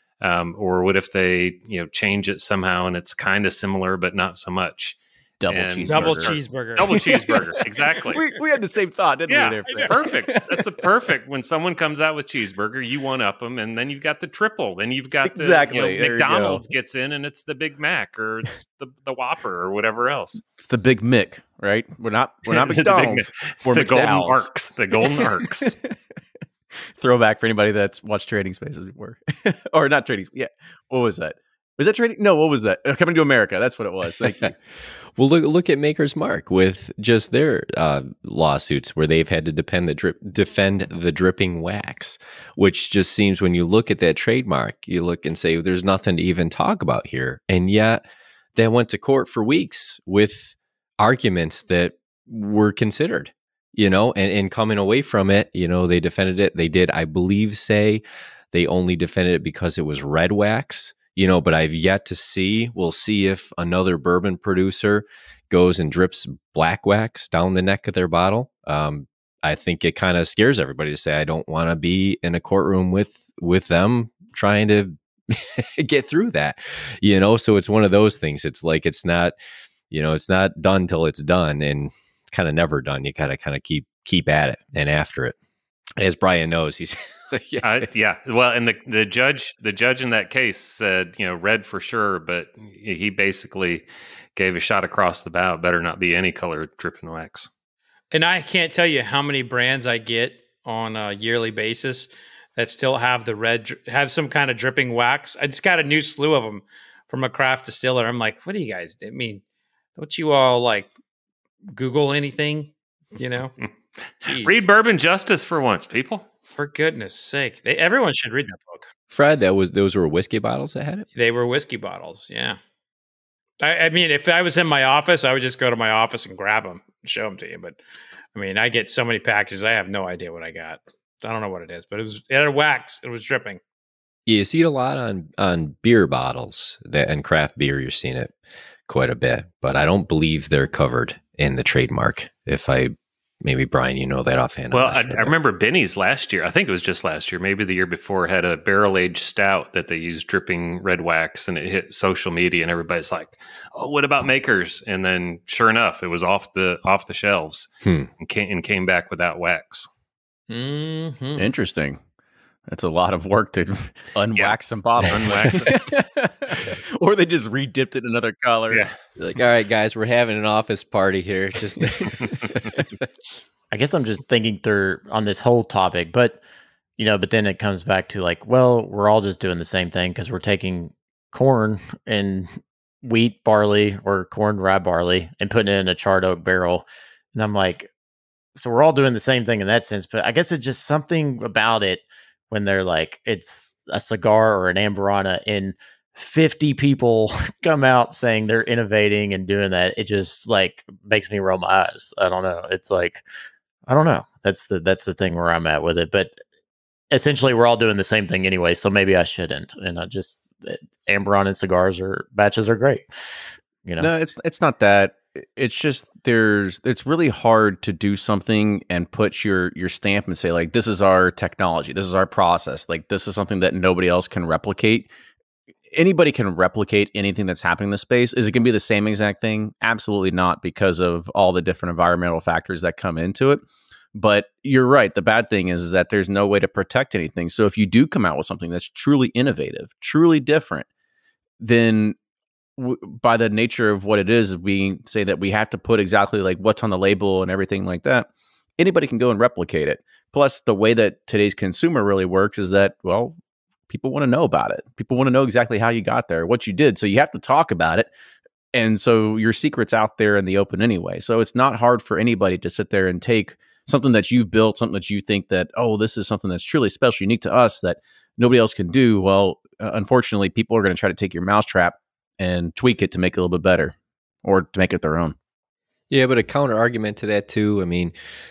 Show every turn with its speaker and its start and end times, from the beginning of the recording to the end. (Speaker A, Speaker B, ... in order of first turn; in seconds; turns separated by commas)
Speaker A: 0.2-8.3, Speaker B: 5.4-10.8, Speaker C: 5.8-7.0, Speaker A: 9.3-20.4, Speaker B: 15.2-16.7, Speaker B: 20.6-25.9, Speaker A: 22.5-25.8, Speaker B: 27.0-34.5, Speaker D: 35.1-48.0, Speaker D: 48.5-58.0, Speaker D: 58.5-79.3, Speaker D: 79.9-85.3, Speaker D: 86.0-87.9, Speaker A: 87.6-97.5, Speaker C: 98.1-109.4, Speaker C: 110.0-110.9, Speaker C: 111.7-113.5, Speaker C: 114.2-114.6, Speaker A: 114.2-116.3, Speaker C: 116.6-118.9, Speaker D: 119.1-121.1, Speaker C: 121.1-122.6, Speaker C: 123.6-127.8, Speaker C: 128.3-133.6, Speaker D: 134.3-138.3, Speaker D: 138.9-145.3, Speaker A: 144.7-157.7, Speaker D: 157.8-158.1, Speaker A: 158.2-159.9, Speaker C: 160.5-161.4, Speaker B: 161.4-162.0, Speaker B: 162.7-169.4, Speaker A: 164.3-165.8, Speaker A: 168.7-168.9, Speaker D: 169.3-172.6, Speaker A: 172.2-172.5, Speaker B: 172.3-172.8, Speaker E: 173.7-176.4, Speaker E: 177.0-182.5, Speaker E: 183.0-187.9, Speaker E: 188.5-203.2, Speaker E: 203.9-206.4, Speaker E: 207.1-214.1, Speaker B: 214.0-225.1, Speaker B: 225.9-233.6, Speaker B: 234.1-240.9, Speaker B: 241.6-242.2, Speaker B: 242.8-253.4, Speaker B: 253.9-258.1, Speaker B: 258.7-275.4, Speaker D: 276.1-278.1